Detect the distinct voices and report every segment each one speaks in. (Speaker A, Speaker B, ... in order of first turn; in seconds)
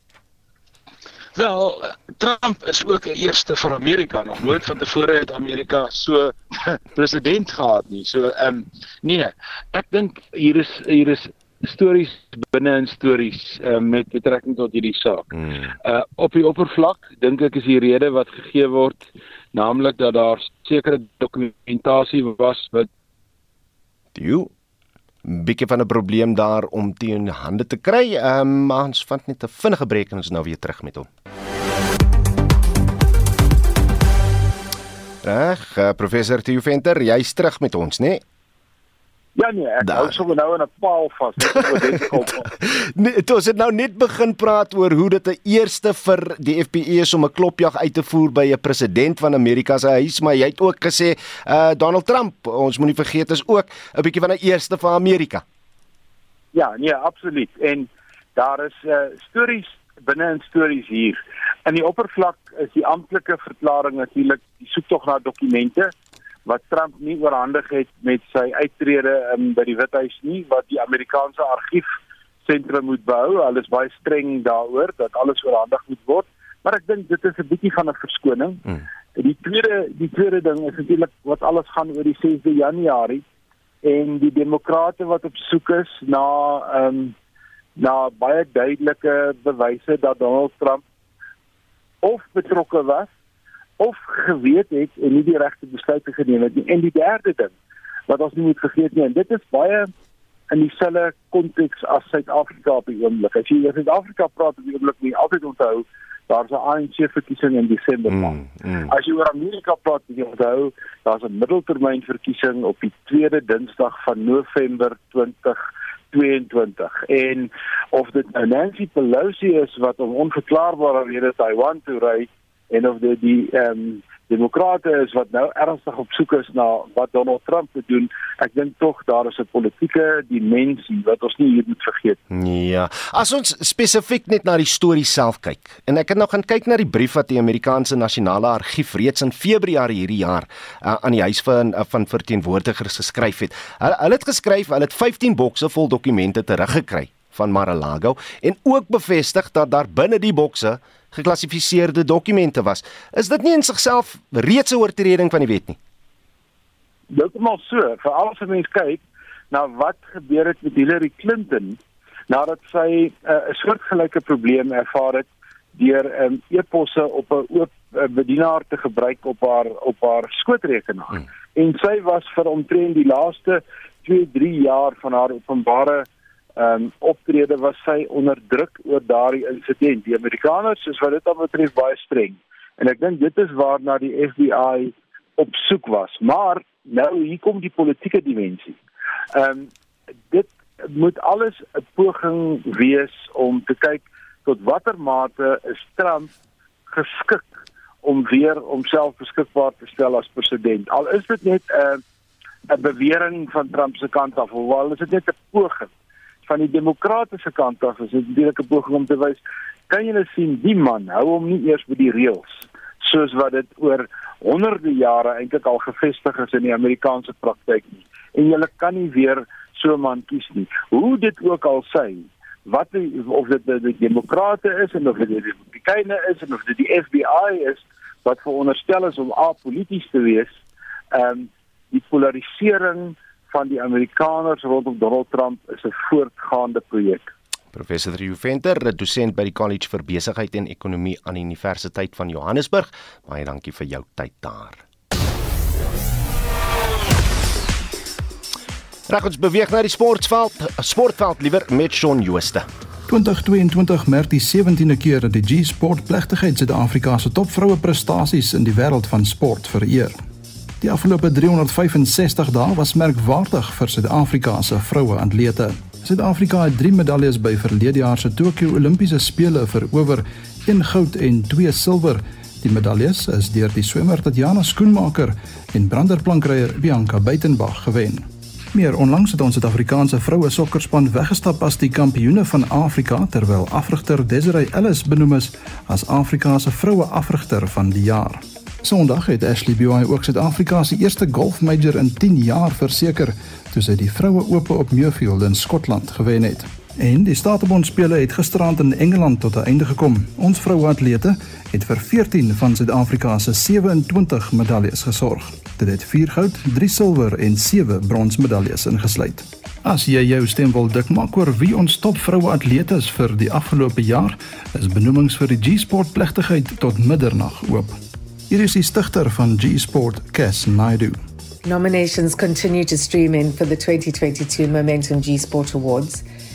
Speaker A: 1.3-15.1, 16.9-17.2, 17.8-18.0, 18.6-19.0, 19.5-22.8
Speaker B: 14.1-14.9, 16.1-18.8, 39.4-42.5, 56.5-65.9, 66.4-71.9, 72.4-78.6, 79.2-83.2, 83.8-87.1, 87.8-90.8, 92.0-93.1, 93.8-97.5, 98.1-99.9, 100.5-115.6, 116.1-132.2, 157.1-188.8, 189.3-189.7, 190.3-196.3, 196.9-197.5, 198.0-202.0, 202.7-205.9, 206.4-230.5, 231.1-237.3
Speaker C: 24.1-24.5, 25.2-31.1, 35.2-38.2, 39.8-40.2, 41.6-42.2, 42.8-55.4, 108.1-108.9, 132.3-155.8, 237.7-244.8, 249.1-252.7
Speaker D: 253.1-260.2, 260.8-318.0, 318.5-321.2
Speaker E: 321.6-326.2